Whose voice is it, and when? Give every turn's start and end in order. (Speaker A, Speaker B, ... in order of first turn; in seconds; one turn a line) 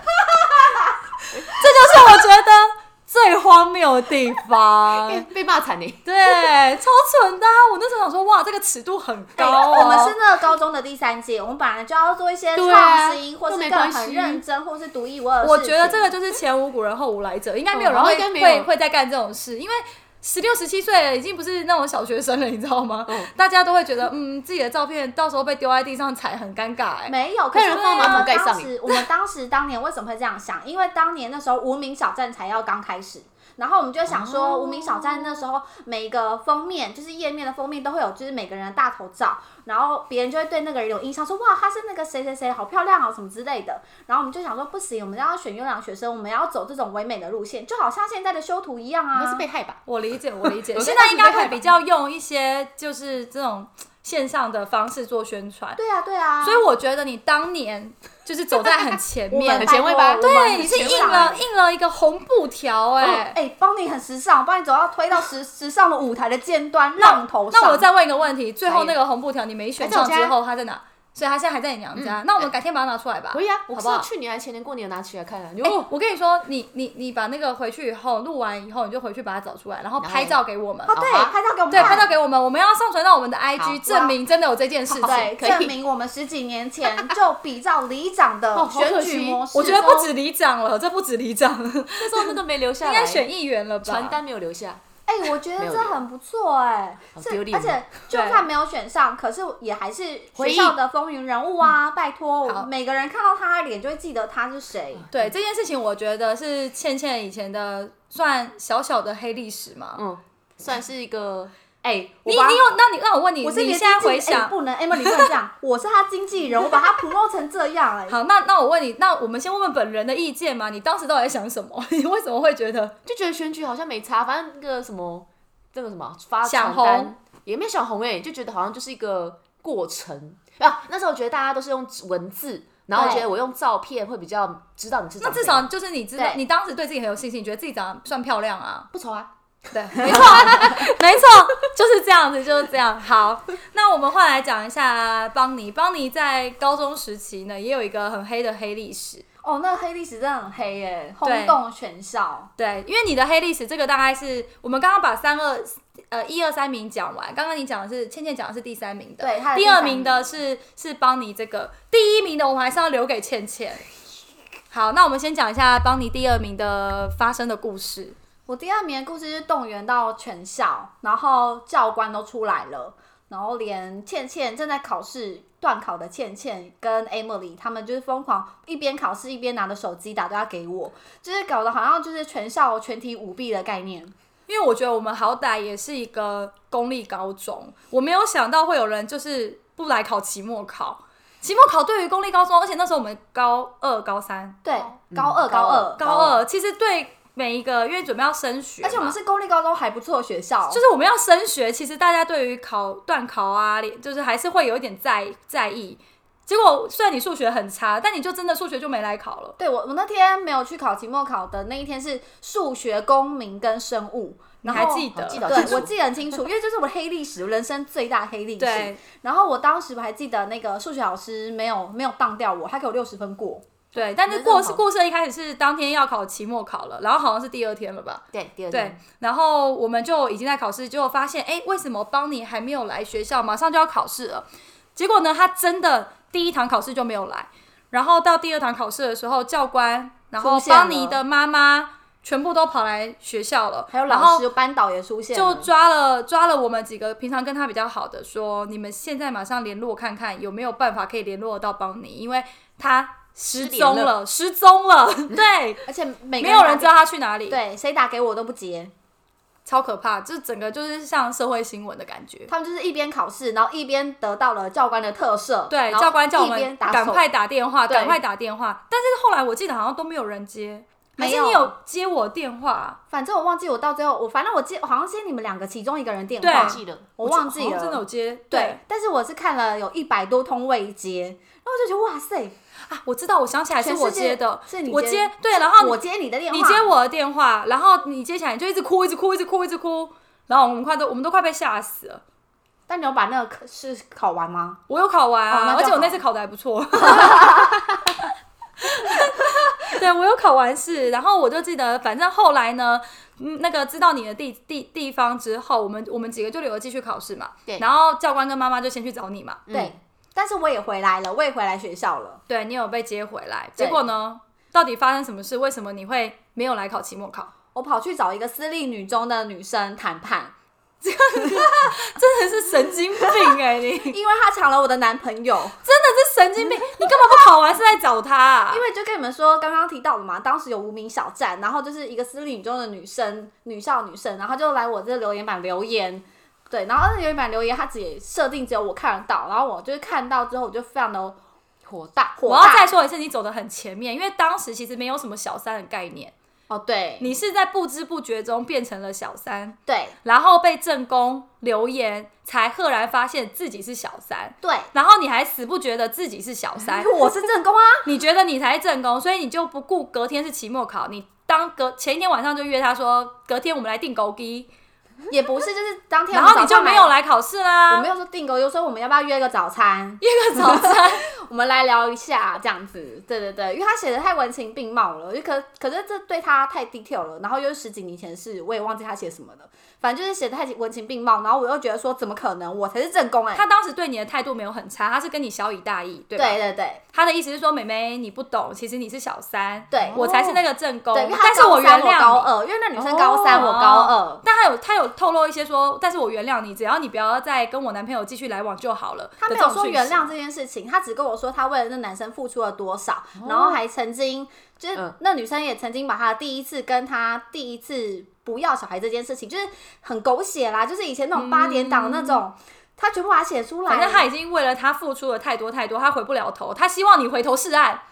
Speaker A: 1.4-5.3
Speaker B: 4.9-6.1
Speaker A: 6.0-10.1
Speaker C: 9.3-16.1
Speaker B: 12.6-14.4
Speaker A: 15.4-27.1
Speaker B: 17.7-18.7
Speaker C: 27.1-49.4
Speaker B: 27.5-28.7
Speaker A: 27.7-28.3
Speaker B: 34.1-35.3
Speaker B: 49.1-49.8
Speaker A: 49.9-55.8
Speaker B: 50.4-51.7
Speaker C: 55.8-56.6
Speaker A: 56.4-63.4
Speaker C: 59.3-61.4
Speaker B: 59.5-61.4
Speaker C: 63.0-67.8
Speaker A: 67.0-74.0
Speaker B: 68.7-69.0
Speaker B: 69.8-70.3
Speaker B: 71.9-72.5
Speaker B: 73.3-75.9
Speaker A: 75.6-81.0
Speaker B: 80.0-80.4
Speaker C: 80.9-82.0
Speaker B: 80.9-82.0
Speaker A: 81.7-85.3
Speaker C: 83.8-84.2
Speaker C: 84.9-89.9
Speaker B: 85.0-85.7
Speaker B: 88.5-90.1
Speaker A: 89.5-94.2
Speaker B: 92.0-93.2
Speaker B: 93.8-94.8
Speaker C: 95.1-105.1
Speaker B: 95.6-96.0
Speaker B: 97.1-97.9
Speaker A: 98.1-98.5
Speaker B: 100.3-100.8
Speaker B: 105.0-105.3
Speaker A: 105.1-110.0
Speaker B: 110.0-112.3
Speaker A: 112.2-115.3
Speaker C: 112.2-112.6
Speaker C: 113.4-118.2
Speaker A: 118.1-122.9
Speaker B: 123.0-135.7
Speaker A: 126.4-127.1
Speaker A: 132.9-133.2
Speaker C: 132.9-133.2
Speaker A: 135.2-138.9
Speaker C: 136.2-136.4
Speaker B: 138.9-139.3
Speaker A: 139.7-149.2
Speaker B: 139.9-140.9
Speaker C: 149.4-152.5
Speaker A: 151.2-151.6
Speaker A: 152.6-163.8
Speaker C: 159.2-160.3
Speaker A: 164.7-168.2
Speaker C: 168.5-184.1
Speaker A: 184.5-194.6
Speaker C: 194.6-196.0
Speaker B: 195.0-196.4
Speaker A: 196.0-199.2
Speaker C: 198.8-200.8
Speaker A: 200.7-209.6
Speaker C: 209.6-223.6
Speaker A: 214.6-215.8
Speaker B: 214.7-215.9
Speaker A: 218.6-219.0
Speaker A: 223.9-234.4
Speaker B: 224.2-224.8
Speaker B: 228.3-229.0
Speaker A: 234.9-244.4
Speaker C: 240.4-241.2
Speaker C: 243.9-245.7
Speaker A: 245.3-255.8
Speaker B: 253.5-254.1
Speaker C: 255.8-256.9
Speaker A: 256.4-257.6
Speaker C: 257.5-258.9
Speaker A: 259.6-262.5
Speaker C: 262.5-267.2
Speaker A: 265.7-273.0
Speaker B: 267.9-268.1
Speaker C: 271.2-271.7
Speaker C: 273.1-282.5
Speaker A: 276.4-278.8
Speaker B: 276.5-277.1
Speaker A: 282.9-286.0
Speaker C: 283.8-286.9
Speaker A: 286.5-292.2
Speaker C: 292.9-294.8
Speaker A: 294.9-297.8
Speaker C: 295.5-296.2
Speaker C: 297.0-297.8
Speaker A: 298.8-309.6
Speaker B: 309.7-309.9
Speaker C: 309.7-312.4
Speaker A: 312.5-317.5
Speaker C: 317.7-320.5
Speaker A: 321.0-324.2
Speaker C: 321.6-321.9
Speaker C: 323.3-323.5
Speaker C: 324.1-325.8
Speaker A: 325.8-328.8
Speaker C: 328.7-341.4
Speaker B: 341.9-342.2
Speaker C: 342.2-342.9
Speaker A: 342.4-346.3
Speaker C: 346.7-347.3
Speaker A: 347.2-357.2
Speaker C: 349.9-350.1
Speaker C: 354.6-354.9
Speaker C: 356.8-358.1
Speaker A: 358.0-364.7
Speaker C: 365.3-367.1
Speaker A: 366.3-368.1
Speaker C: 367.9-383.6
Speaker A: 370.2-371.2
Speaker A: 383.5-386.6
Speaker C: 386.3-387.0
Speaker A: 387.1-392.5
Speaker C: 389.9-390.5
Speaker B: 390.0-390.6
Speaker C: 391.1-394.4
Speaker B: 393.0-393.7
Speaker A: 393.4-400.3
Speaker C: 399.4-414.3
Speaker B: 403.4-403.8
Speaker A: 411.3-412.4
Speaker A: 413.9-418.0